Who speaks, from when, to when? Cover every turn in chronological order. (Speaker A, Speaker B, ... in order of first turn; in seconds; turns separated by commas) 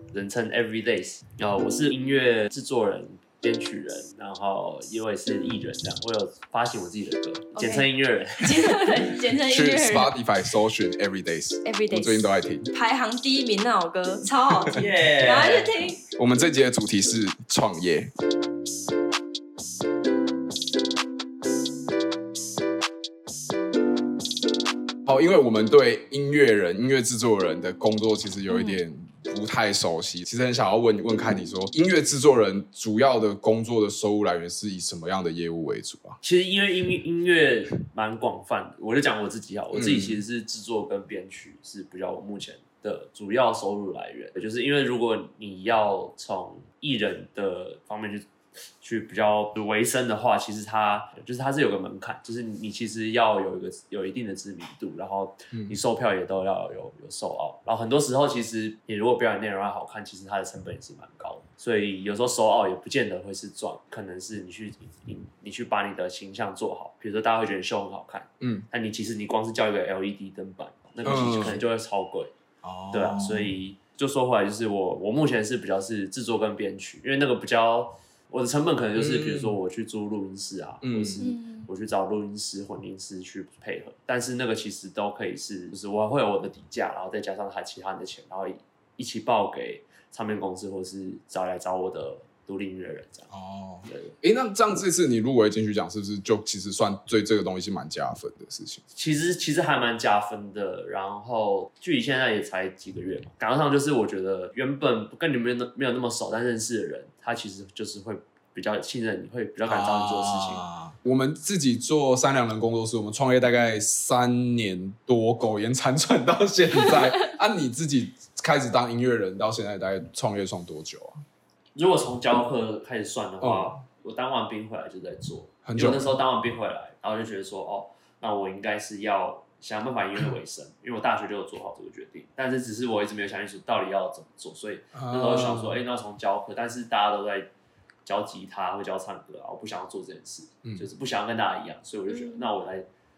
Speaker A: 0.1-8.8, Speaker B: 7.5-7.9, Speaker B: 8.4-10.1, Speaker C: 9.4-12.7, Speaker B: 11.6-16.0, Speaker C: 14.7-15.4, Speaker A: 14.7-15.7, Speaker C: 16.1-18.1, Speaker C: 25.1-36.2, Speaker B: 28.5-28.8, Speaker A: 36.2-48.3, Speaker C: 39.7-40.2, Speaker A: 48.8-72.3, Speaker C: 55.5-55.8, Speaker C: 68.4-68.7, Speaker C: 71.0-71.6, Speaker C: 72.6-73.5, Speaker A: 72.9-93.3, Speaker C: 78.9-79.5, Speaker C: 80.8-81.3, Speaker B: 81.2-81.7, Speaker C: 93.3-98.8, Speaker A: 93.8-94.1, Speaker A: 98.9-110.6, Speaker C: 109.6-121.2, Speaker A: 121.7-137.5, Speaker C: 123.4-123.7, Speaker C: 125.6-126.2, Speaker C: 134.9-135.8, Speaker A: 138.0-142.8, Speaker B: 142.1-142.5